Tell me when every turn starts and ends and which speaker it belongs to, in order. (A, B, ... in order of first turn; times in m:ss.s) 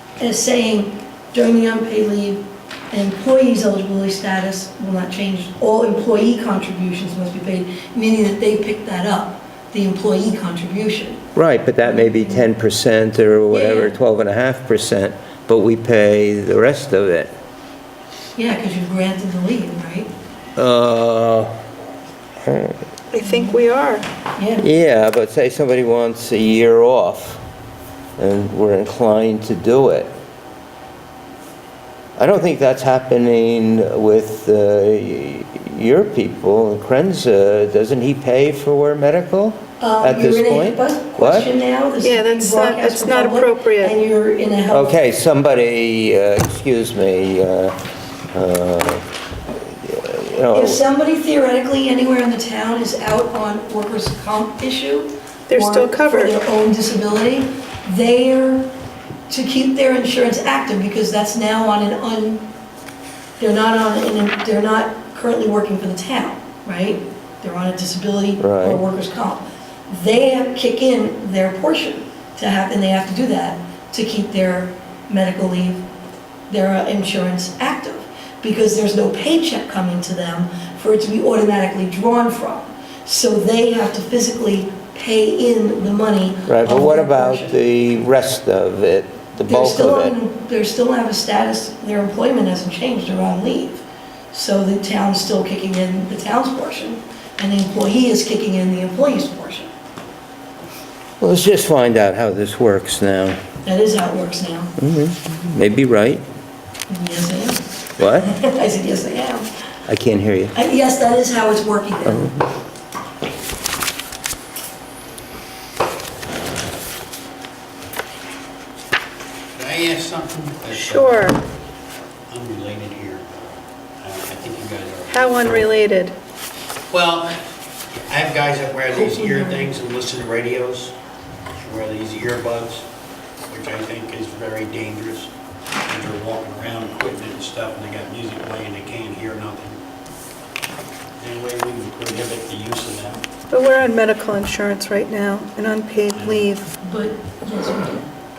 0:00.2-0:11.2 A
0:11.4-0:17.3 B
0:11.8-0:12.5 A
0:13.5-0:14.0 A
0:18.4-0:20.1 A
0:20.6-0:21.6 B
0:22.4-0:22.8 B
0:23.1-0:24.1 C
0:23.2-0:23.6 A
0:24.4-0:24.6 A
0:24.6-0:27.4 B
0:28.2-0:30.1 B
0:32.2-0:41.5 B
0:39.8-0:45.0 A
0:42.0-0:44.0 C
0:44.7-0:47.8 B
0:48.3-0:49.1 B
0:49.6-0:50.8 B
0:50.5-0:58.7 A
0:55.5-0:56.4 C
0:59.3-1:02.5 A
1:03.4-1:15.8 A
1:08.4-1:08.8 B
1:16.5-1:27.5 A
1:26.5-1:30.2 B
1:29.5-1:39.7 A
1:41.2-1:43.4 B
1:43.6-1:44.7 A
1:44.8-1:46.2 B
1:46.9-1:49.5 A
1:48.0-1:48.3 B
1:49.9-1:50.6 B
1:50.5-1:52.3 A
1:52.0-1:52.5 B
1:59.6-2:01.3 D
2:00.7-2:01.4 C
2:02.3-2:03.3 D
2:04.0-2:05.7 D
2:05.1-2:06.2 C
2:06.9-2:07.4 D
2:07.9-2:11.0 D
2:08.9-2:09.7 A
2:11.6-2:12.8 D
2:13.5-2:15.3 D
2:15.8-2:19.8 D
2:21.2-2:23.2 D
2:23.5-2:26.7 C
2:26.2-2:26.5 D
2:26.8-2:28.1 A